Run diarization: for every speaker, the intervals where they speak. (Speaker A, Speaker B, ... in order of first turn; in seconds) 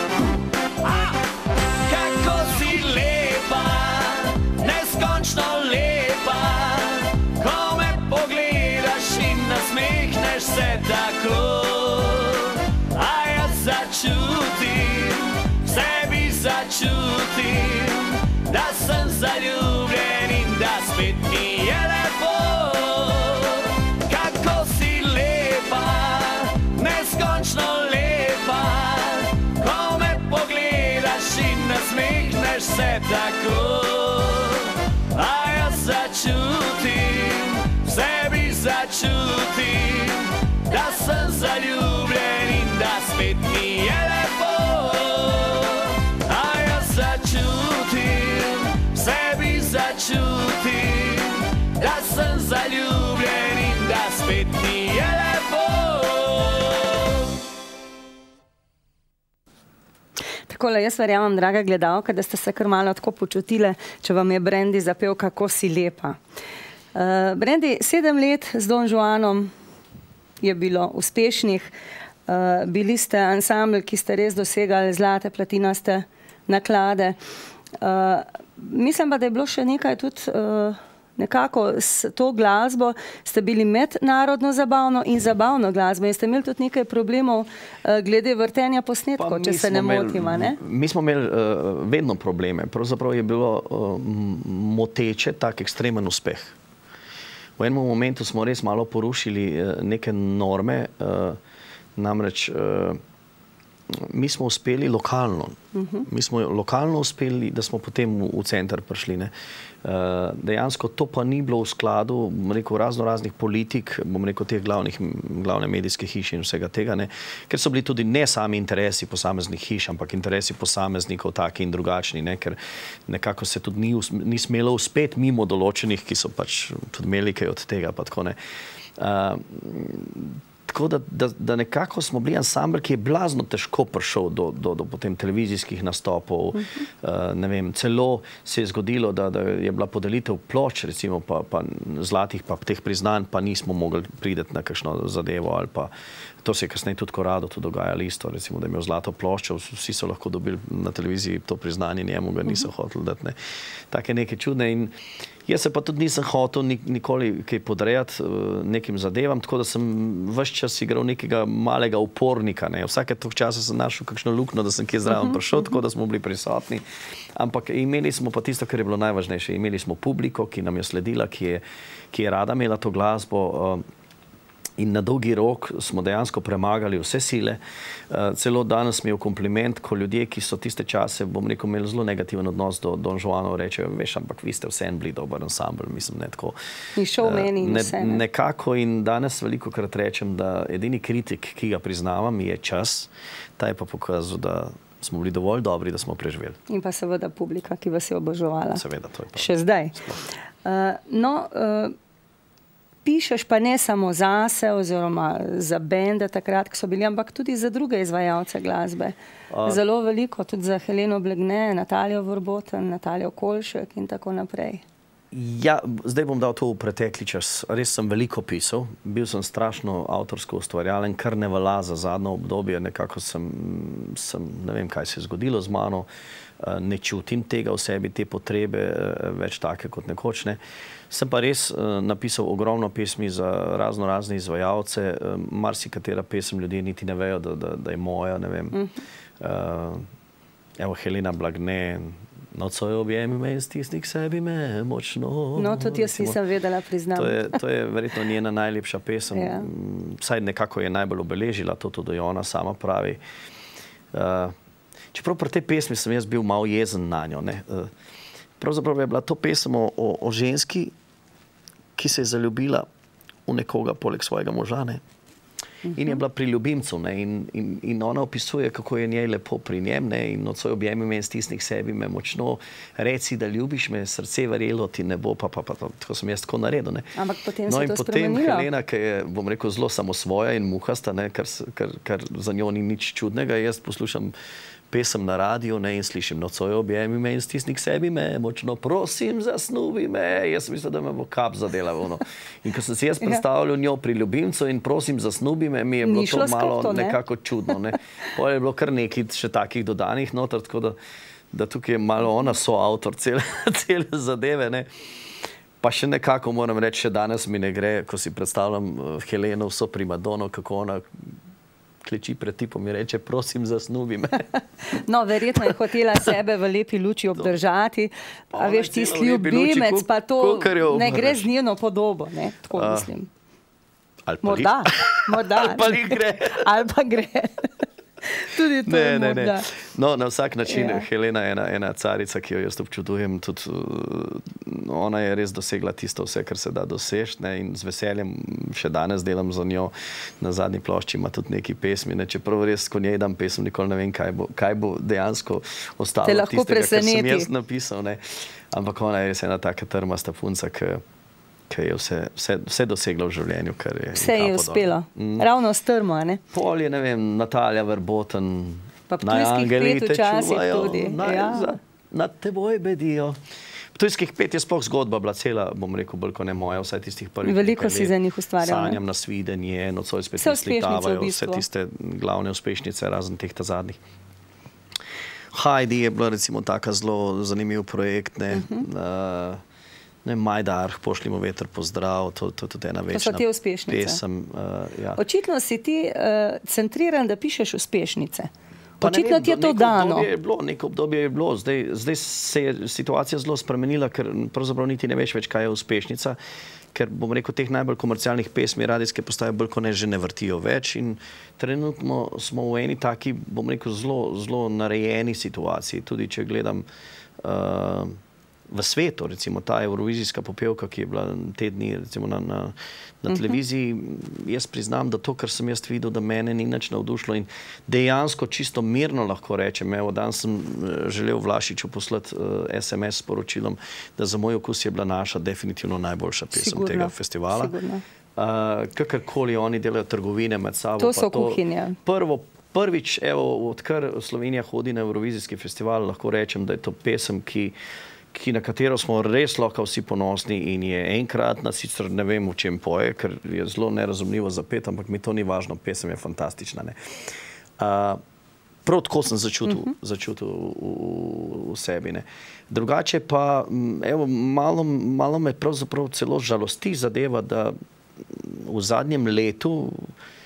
Speaker A: 1.9-57.3
Speaker B: 60.5-66.2, 66.9-69.5, 70.4-71.7, 72.3-77.2, 77.8-90.6, 105.7-106.0, 186.9-188.2, 196.7-198.8, 199.3-200.0, 200.6-201.9, 203.0-214.8, 245.6-247.5, 249.3-249.7, 277.1-278.7, 296.0-297.2, 314.9-323.3, 324.4-327.7, 328.3-329.7, 330.7-331.1, 346.2-347.5, 354.1-356.4, 359.1-361.8, 367.4-369.0, 370.4-371.6, 378.5-378.8, 383.1-384.2, 385.2-388.5, 389.0-390.3, 426.5-428.0, 431.0-432.0
Speaker C: 89.2-96.5, 97.6-101.4, 102.0-103.0, 103.9-109.3, 109.8-128.3, 129.0-145.9, 146.4-153.3, 153.9-154.9, 155.5-166.8, 167.4-173.8, 174.8-186.6, 187.2-196.6, 198.7-199.5, 209.5-209.8, 215.3-226.1, 226.6-230.6, 231.1-238.8, 239.4-240.1, 240.8-246.4, 247.1-253.2, 254.1-254.5, 255.1-257.9, 258.6-260.9, 261.9-262.9, 263.4-265.0, 265.9-277.1, 277.7-284.3, 284.9-300.9, 301.5-304.9, 305.8-311.0, 312.0-314.5, 318.5-321.5, 322.7-323.1, 324.3-326.7, 328.8-351.0, 351.7-355.4, 356.5-363.4, 363.9-374.0, 375.5-379.6, 380.2-385.2, 389.0-396.4, 396.9-406.9, 407.4-408.2, 408.7-427.7, 428.4-437.7, 438.3-446.9, 447.8-448.2, 448.8-460.1